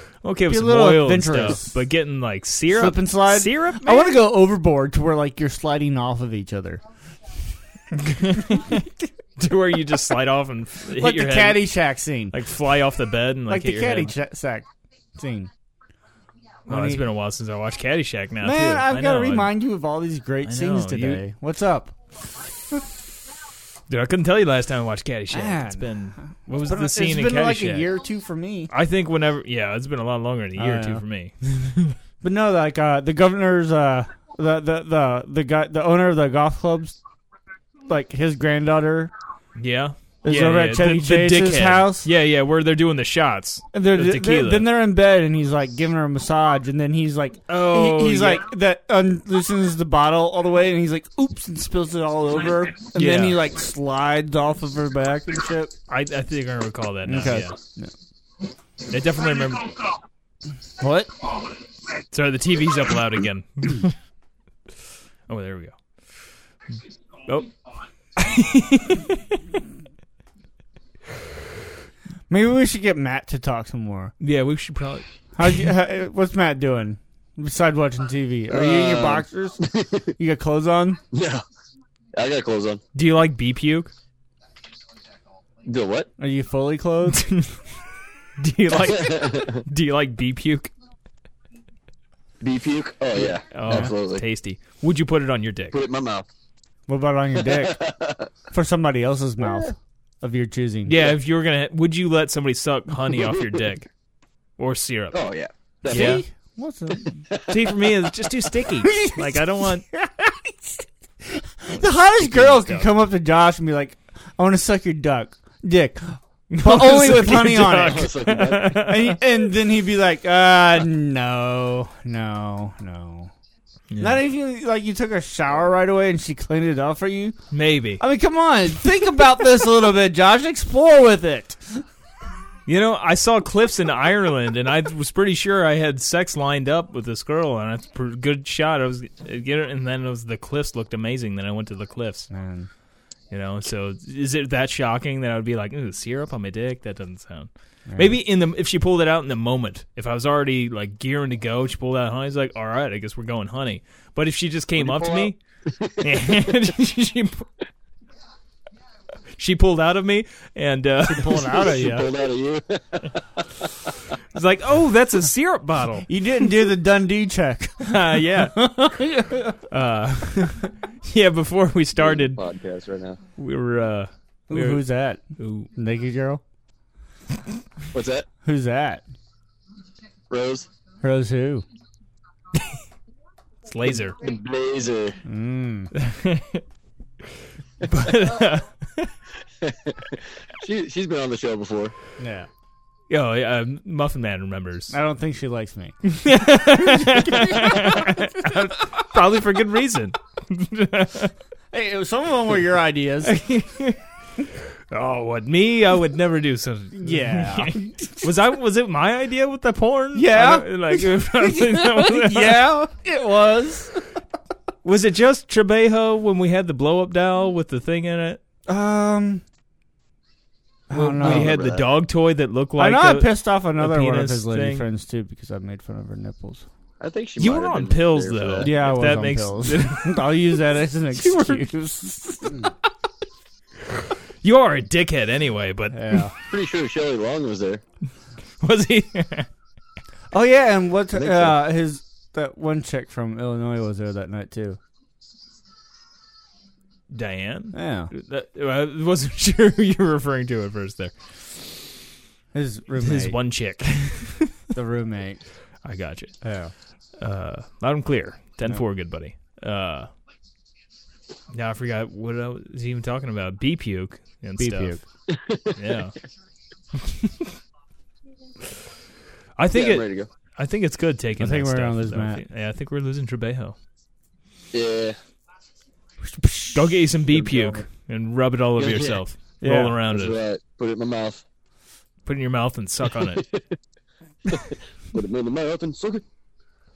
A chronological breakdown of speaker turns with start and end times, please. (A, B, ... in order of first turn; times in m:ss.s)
0:00.2-0:04.2 A
0:00.5-0:01.8 B
0:02.7-0:06.8 B
0:08.0-0:11.7 A
0:10.9-0:12.4 B
0:12.3-0:14.1 A
0:13.5-0:15.5 B
0:16.7-0:19.5 A
0:16.7-0:17.0 B
0:18.4-0:22.0 B
0:20.4-0:21.2 A
0:23.9-0:27.9 A
0:25.3-0:28.7 B
0:28.7-0:32.0 A
0:30.6-0:31.0 B
0:32.2-0:37.0 B
0:37.9-0:39.1 B
0:39.6-0:44.7 A
0:40.2-0:42.1 B
0:43.7-0:55.7 B
0:47.5-0:48.4 A
0:52.9-0:53.4 A
0:55.9-0:57.6 A
0:57.0-0:57.9 B
0:58.9-0:59.7 A
1:00.8-1:01.1 B
1:02.1-1:04.0 A
1:05.3-1:05.8 A
1:08.2-1:09.4 A
1:12.3-1:14.1 B
1:14.2-1:15.6 A
1:15.4-1:21.0 B
1:18.5-1:20.0 C
1:21.1-1:21.4 C
1:22.2-1:22.8 C
1:22.9-1:23.9 A
1:25.6-1:26.1 C
1:26.2-1:27.2 B
1:27.1-1:27.6 A
1:28.4-1:30.7 A
1:28.8-1:29.6 C
1:32.4-1:34.2 C
1:33.4-1:35.8 A
1:35.7-1:36.2 C
1:36.9-1:37.8 B
1:37.5-1:38.2 C
1:38.5-1:41.0 B
1:39.4-1:39.7 C
1:40.8-1:43.9 A
1:43.2-1:43.5 C
1:44.6-1:45.2 A
1:45.1-1:46.2 C
1:45.9-1:46.2 A
1:45.9-1:47.2 B
1:47.4-1:49.8 A
1:48.7-2:03.3 B
1:52.2-1:52.9 A
1:56.5-1:59.2 A
1:57.6-1:58.8 C
2:03.9-2:04.2 A
2:04.0-2:07.4 B
2:07.5-2:08.0 A
2:08.0-2:11.8 B
2:12.7-2:22.3 A
2:22.3-2:22.7 B
2:23.3-2:35.4 A
2:27.9-2:28.2 B
2:34.8-2:36.0 C
2:36.0-2:37.5 A
2:39.4-2:41.6 A
2:41.0-2:42.1 B
2:41.6-2:43.6 C
2:44.3-2:46.1 A
2:46.0-2:49.6 B
2:47.8-2:48.9 A
2:49.7-2:52.4 A
2:52.0-2:53.2 C
2:53.4-2:54.8 A
2:54.5-2:56.4 B
2:55.4-2:55.7 A
2:57.9-2:58.3 C
2:58.4-2:59.0 B
3:00.3-3:00.7 C
3:01.0-3:01.6 B
3:03.7-3:04.2 A
3:04.2-3:05.2 C
3:05.2-3:05.9 B
3:05.9-3:06.6 A
3:07.8-3:09.1 A
3:09.6-3:11.9 C
3:12.2-3:12.5 B
3:13.1-3:15.0 A
3:14.9-3:18.6 B
3:16.0-3:21.3 A
3:21.7-3:23.4 B
3:23.2-3:24.0 A
3:24.9-3:32.8 A
3:26.9-3:28.3 B
3:30.1-3:34.0 B
3:34.8-3:38.4 A
3:38.7-3:39.4 B
3:40.9-3:41.6 B
3:40.9-3:44.8 A
3:41.2-3:41.8 C
3:42.8-3:46.6 B
3:47.0-3:48.8 C
3:47.4-3:50.3 A
3:48.6-3:52.6 B
3:51.1-3:51.7 A
3:54.4-3:56.3 A
3:55.9-3:56.3 B
3:56.5-3:57.8 C
3:58.6-3:59.5 A
4:00.3-4:04.8 B
4:01.1-4:01.6 C
4:07.1-4:11.7 A
4:07.7-4:08.1 B
4:12.5-4:13.4 B
4:13.0-4:14.5 A
4:14.7-4:15.4 B
4:15.8-4:16.3 A
4:16.4-4:16.7 B
4:17.2-4:20.1 A
4:21.5-4:25.0 A
4:24.6-4:25.0 B
4:25.3-4:25.7 C
4:25.7-4:26.1 A
4:27.0-4:27.5 A
4:29.6-4:33.8 A
4:29.7-4:30.3 C
4:31.4-4:32.4 B
4:34.7-4:35.2 C
4:36.2-4:37.0 B
4:36.7-4:40.4 A
4:37.3-4:37.9 C
4:38.8-4:39.2 C
4:39.6-4:40.0 B
4:40.1-4:41.4 C
4:42.2-4:43.4 A
4:43.4-4:43.6 C
4:44.5-4:46.2 C